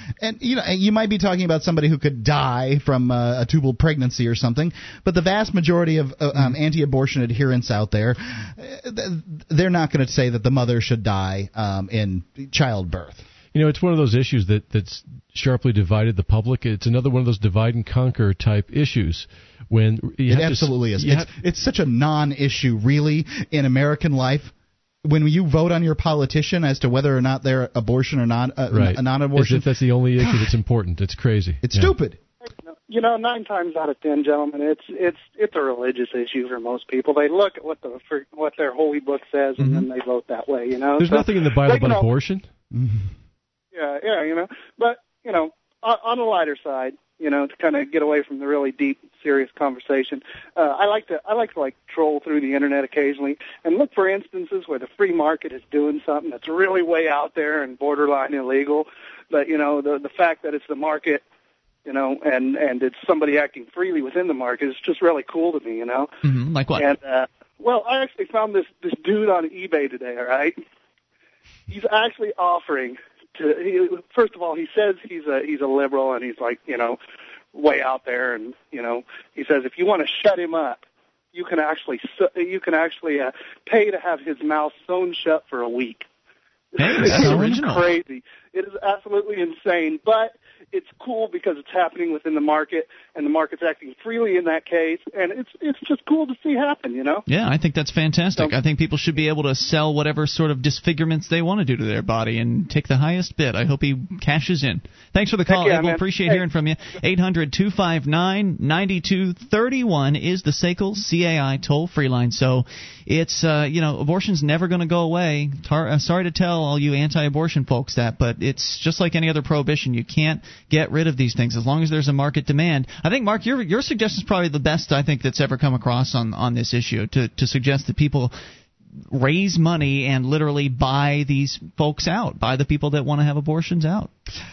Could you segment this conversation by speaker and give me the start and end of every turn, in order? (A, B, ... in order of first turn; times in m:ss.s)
0:00.2-0:13.2 A
0:13.5-0:21.3 B
0:20.3-0:24.5 A
0:25.0-0:30.6 A
0:28.7-0:31.9 B
0:31.6-0:32.2 A
0:32.6-0:42.1 C
0:39.6-0:39.8 B
0:41.0-0:42.5 B
0:42.7-0:43.1 A
0:43.7-1:01.2 C
1:01.8-1:06.1 C
1:06.2-1:06.9 D
1:06.7-1:10.6 C
1:11.7-1:17.0 C
1:17.5-1:20.8 C
1:21.3-1:26.1 C
1:26.7-1:37.2 C
1:26.8-1:27.9 D
1:37.3-2:08.3 D
1:45.5-1:46.4 C
2:09.1-2:14.1 D